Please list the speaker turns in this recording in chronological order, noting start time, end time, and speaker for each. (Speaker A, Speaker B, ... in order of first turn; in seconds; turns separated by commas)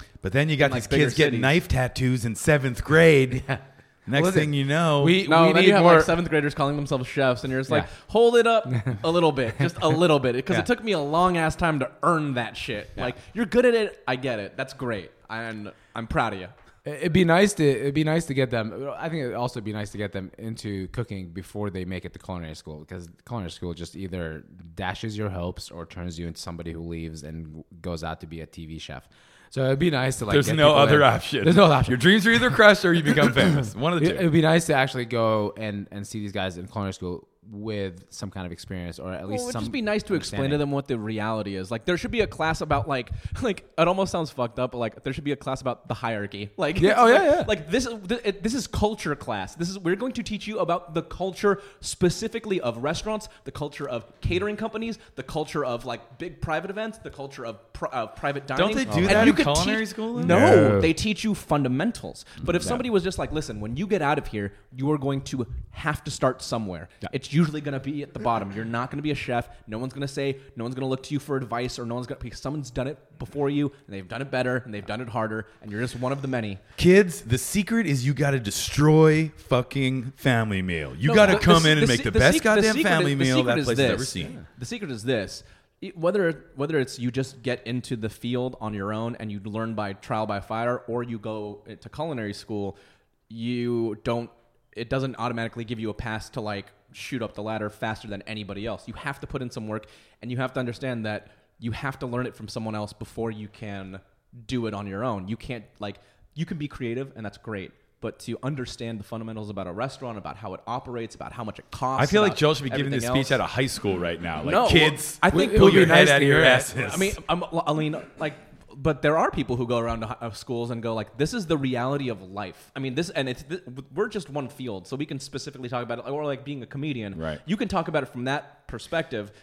Speaker A: 0.2-3.5, Speaker B: 0.6-1.6, Speaker A: 4.1-5.2, Speaker C: 4.1-6.1, Speaker B: 5.2-16.5, Speaker C: 16.8-32.1, Speaker A: 30.3-34.3, Speaker C: 34.0-40.6, Speaker B: 39.3-76.6, Speaker C: 46.8-47.5, Speaker A: 58.5-60.7, Speaker C: 58.8-59.5, Speaker C: 60.2-60.9, Speaker A: 76.8-84.3, Speaker B: 81.0-92.8, Speaker B: 93.3-113.4, Speaker A: 112.0-117.1, Speaker B: 114.4-116.0, Speaker C: 115.3-116.8, Speaker B: 116.7-129.3, Speaker A: 127.1-127.4